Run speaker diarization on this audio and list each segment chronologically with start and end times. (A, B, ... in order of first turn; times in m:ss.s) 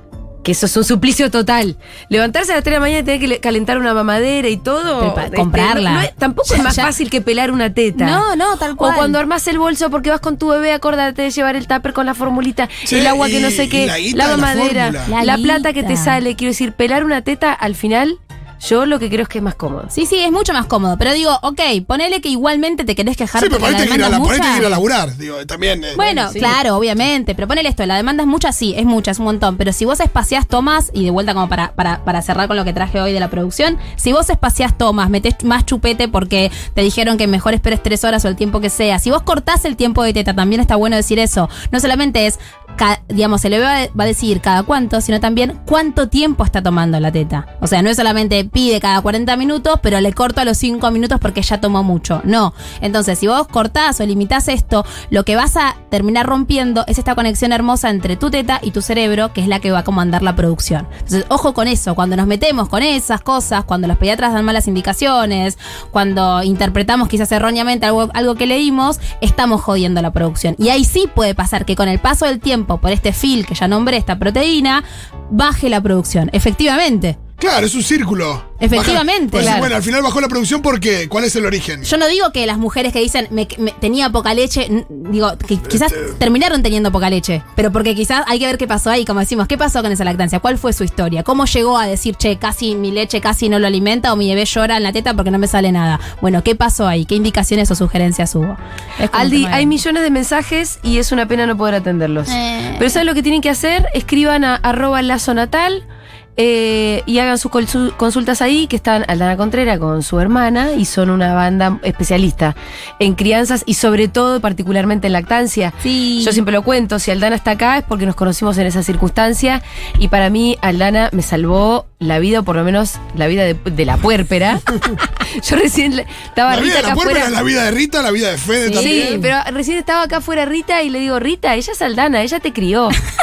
0:00.4-0:08.2 A
0:05.0-0:06.9 B
0:08.0-0:09.2 B
0:08.8-0:19.9 A
0:12.8-0:15.1 C
0:15.1-0:16.2 B
0:19.9-0:24.7 B
0:23.4-0:26.0 C
0:25.9-1:17.2 B
0:26.0-0:26.6 A
1:17.4-1:21.9 C
1:18.6-1:19.6 B
1:19.4-1:19.7 A
1:21.8-1:39.8 B
1:25.7-1:26.1 C
1:39.1-1:45.8 A
1:42.3-1:43.0 B
1:46.4-2:07.3 A
1:55.8-1:56.4 B
2:06.5-2:09.2 C
2:08.6-2:09.3 B
2:08.7-2:13.0 A